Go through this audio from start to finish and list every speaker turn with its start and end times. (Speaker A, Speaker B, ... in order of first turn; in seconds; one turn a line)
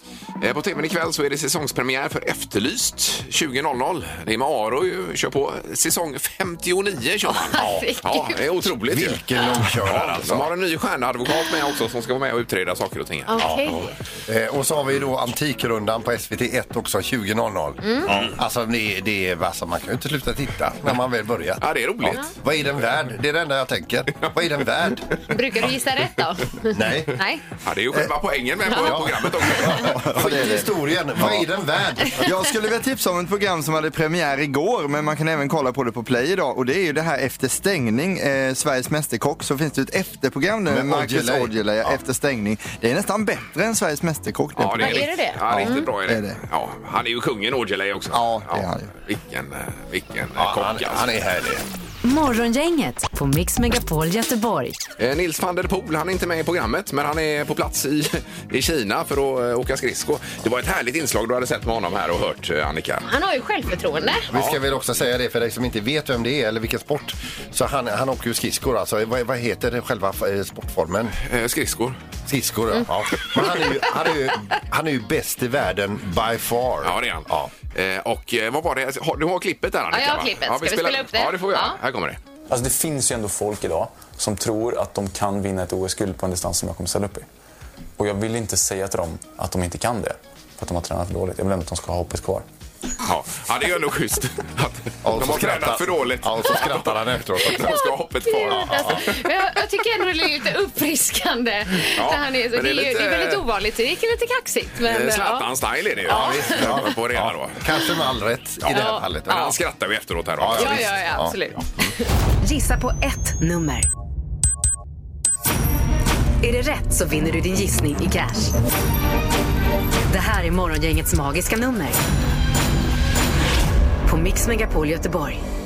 Speaker A: 0.4-13.9
Speaker B: 7.3-8.4
Speaker C: 7.5-7.8
Speaker C: 8.7-10.5
Speaker B: 13.3-13.9
Speaker C: 13.4-13.7
Speaker C: 14.3-25.1
Speaker B: 17.8-18.1
Speaker A: 21.6-22.3
Speaker B: 25.3-27.4
Speaker C: 26.7-27.2
Speaker A: 27.6-30.0
Speaker B: 28.6-28.9
Speaker C: 28.7-32.3
Speaker D: 29.7-31.4
Speaker D: 32.2-46.4
Speaker C: 40.7-42.0
Speaker A: 44.6-51.1
Speaker B: 44.8-45.9
Speaker D: 48.1-48.9
Speaker C: 50.4-51.6
Speaker E: 52.0-54.8
Speaker A: 55.0-63.1
Speaker B: 63.1-64.3
Speaker C: 64.3-71.2
Speaker A: 64.3-64.6
Speaker A: 71.2-72.0
Speaker C: 72.3-77.5
Speaker A: 76.8-82.2
Speaker B: 79.9-81.8
Speaker F: 82.5-87.3
Speaker F: 88.0-92.4
Speaker A: 93.0-99.3
Speaker C: 95.0-97.8
Speaker B: 97.6-105.5
Speaker C: 98.5-99.0
Speaker A: 101.8-103.4
Speaker A: 104.8-107.6
Speaker C: 106.0-109.4
Speaker B: 106.1-106.9
Speaker A: 108.6-111.0
Speaker B: 108.7-109.5
Speaker C: 110.4-111.3
Speaker B: 110.5-111.9
Speaker E: 112.4-113.9
Speaker E: 116.4-118.5
Speaker E: 120.1-122.0
Speaker E: 124.0-125.4